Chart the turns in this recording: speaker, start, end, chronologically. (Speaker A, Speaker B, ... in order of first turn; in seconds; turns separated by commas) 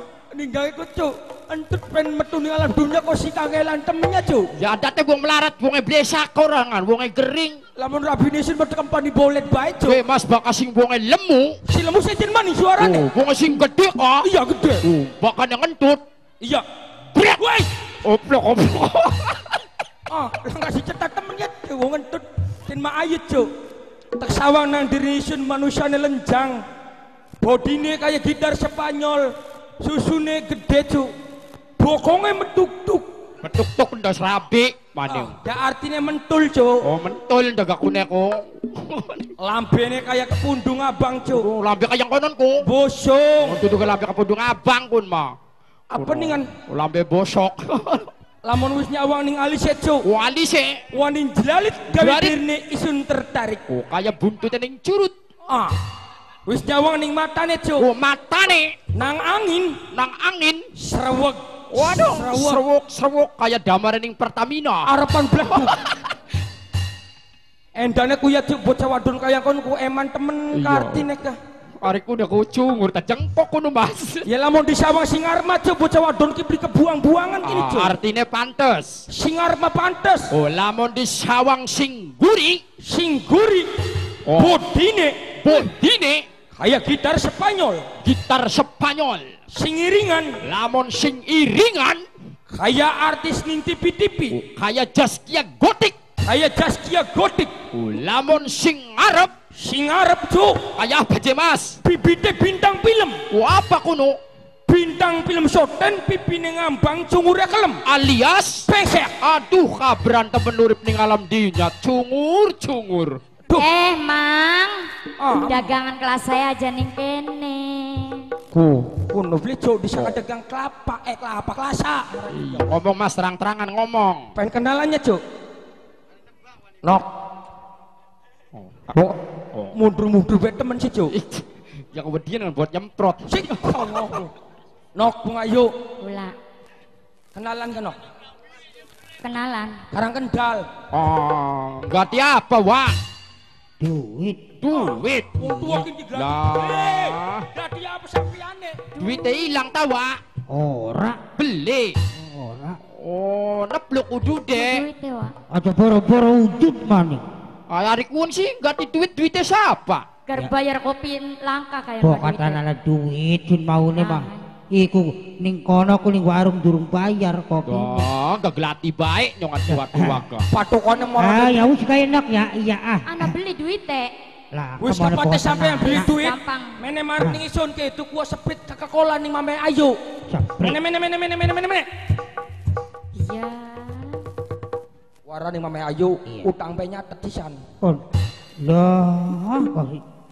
Speaker A: 0.3-4.5, Speaker B: 4.5-7.6, Speaker A: 7.8-10.0, Speaker B: 9.8-11.6, Speaker A: 11.7-13.0, Speaker B: 12.8-14.3, Speaker A: 14.2-14.8, Speaker B: 14.8-16.0, Speaker A: 16.4-17.7, Speaker B: 18.0-19.6, Speaker A: 20.1-23.5, Speaker A: 24.2-26.6, Speaker A: 27.4-29.3, Speaker A: 29.8-31.1, Speaker A: 31.8-33.0, Speaker B: 33.4-35.3, Speaker A: 35.1-36.8, Speaker B: 36.8-39.3, Speaker A: 39.4-41.5, Speaker B: 41.2-42.6, Speaker A: 42.6-43.6, Speaker B: 43.4-45.3, Speaker A: 45.9-46.5, Speaker B: 46.0-48.1, Speaker A: 48.4-50.0, Speaker B: 50.0-50.8, Speaker A: 50.9-53.6, Speaker B: 51.9-52.4, Speaker B: 53.7-55.1, Speaker A: 55.5-55.7, Speaker A: 56.5-57.8, Speaker B: 57.8-58.7, Speaker A: 58.9-59.8, Speaker B: 59.9-60.6, Speaker A: 60.8-62.6, Speaker B: 61.7-64.9, Speaker A: 64.8-65.8, Speaker B: 65.5-65.9, Speaker A: 67.8-71.4, Speaker B: 70.5-71.0, Speaker B: 71.8-74.2, Speaker A: 74.2-78.0, Speaker B: 77.4-79.0, Speaker A: 79.1-80.2, Speaker B: 80.3-82.6, Speaker A: 82.8-83.7, Speaker B: 84.2-84.6, Speaker A: 84.3-85.7, Speaker B: 85.4-86.2, Speaker A: 86.6-87.8, Speaker B: 88.0-89.3, Speaker A: 89.5-90.3, Speaker B: 90.4-92.0, Speaker A: 92.5-94.3, Speaker B: 94.3-96.0, Speaker A: 96.3-97.5, Speaker B: 97.7-99.3, Speaker A: 99.5-100.6, Speaker B: 100.7-101.8, Speaker A: 101.8-103.2, Speaker B: 103.3-104.2, Speaker A: 104.7-107.8, Speaker B: 107.8-113.2, Speaker A: 108.7-109.1, Speaker C: 113.5-114.9, Speaker A: 115.2-115.7, Speaker C: 115.5-118.3, Speaker A: 118.6-122.2, Speaker B: 119.9-120.2, Speaker B: 122.3-124.3, Speaker A: 124.3-125.2, Speaker B: 128.5-129.7, Speaker A: 129.7-131.1, Speaker B: 131.1-133.9, Speaker A: 133.3-134.3, Speaker A: 134.9-135.7, Speaker C: 136.0-136.3, Speaker A: 137.3-138.0, Speaker C: 139.2-139.8, Speaker A: 139.9-140.7, Speaker B: 140.9-142.9, Speaker D: 143.8-144.4, Speaker B: 144.6-147.5, Speaker A: 144.7-148.9, Speaker C: 148.9-149.3, Speaker B: 149.0-150.2, Speaker D: 150.5-151.2, Speaker B: 151.4-152.0, Speaker D: 152.2-152.8, Speaker B: 152.9-154.8, Speaker C: 154.5-155.3, Speaker D: 155.5-157.2, Speaker B: 157.7-160.1, Speaker C: 160.3-162.6, Speaker D: 162.0-168.1, Speaker C: 163.9-164.4, Speaker B: 167.6-170.4, Speaker D: 169.7-170.2, Speaker A: 170.5-171.7, Speaker D: 171.2-173.3, Speaker C: 173.1-174.1, Speaker D: 174.5-176.1, Speaker A: 174.8-179.9, Speaker C: 175.8-176.8, Speaker D: 180.3-180.8, Speaker A: 180.6-181.8, Speaker C: 183.1-184.2, Speaker A: 185.3-187.6, Speaker D: 188.6-190.0